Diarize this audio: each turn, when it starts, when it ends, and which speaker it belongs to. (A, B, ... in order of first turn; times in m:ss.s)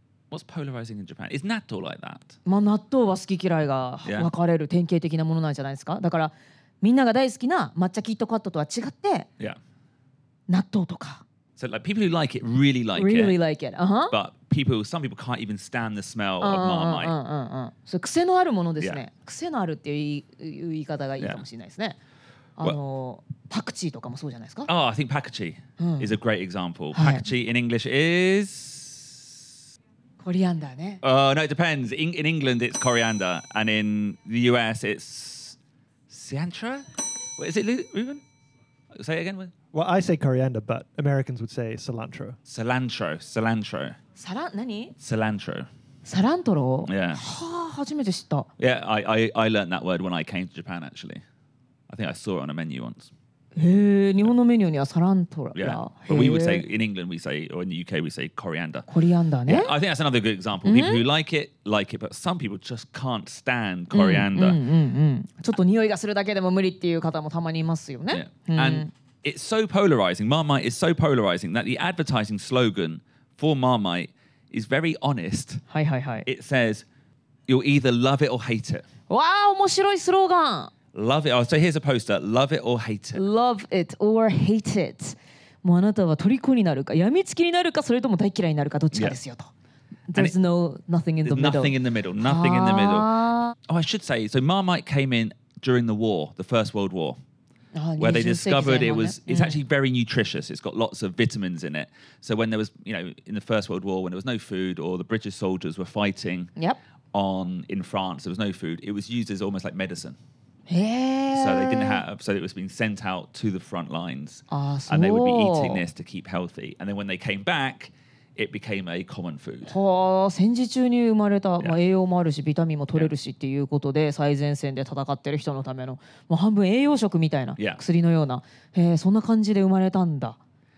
0:00.3-0:02.4 A
0:02.4-0:09.3 B
0:04.0-0:04.3 A
0:10.5-0:11.2 B
0:11.6-0:13.4 A
0:13.0-0:14.1 B
0:14.1-0:17.1 A
0:16.4-0:22.0 B
0:22.6-0:24.7 B
0:24.7-0:29.4 A
0:25.8-0:26.2 B
0:26.9-0:27.2 B
0:30.2-0:31.0 B
0:31.0-0:35.6 A
0:36.1-0:38.2 A
0:38.9-0:39.5 A
0:39.7-0:42.4 C
0:42.4-0:44.0 A
0:44.2-0:44.9 B
0:45.0-0:45.7 A
0:46.0-0:48.5 B
0:46.8-0:47.2 A
0:48.6-0:51.2 A
0:51.9-0:53.1 A
0:53.6-0:56.6 B
0:55.5-0:58.9 A
0:58.9-0:59.7 B
0:59.4-1:04.6 A
1:00.6-1:01.0 B
1:03.9-1:08.9 B
1:08.1-1:15.6 A
1:15.7-1:16.2 B
1:16.2-1:16.8 A
1:17.5-1:18.8 A
1:19.1-1:20.7 B
1:20.9-1:23.2 A
1:23.1-1:29.5 B
1:30.1-1:33.5 B
1:31.2-1:33.1 A
1:33.6-1:37.2 A
1:37.8-1:39.6 B
1:38.0-1:46.5 A
1:47.1-1:50.2 A
1:50.7-1:52.0 B
1:51.3-1:59.7 A
1:54.5-1:55.8 B
1:59.6-2:10.4 B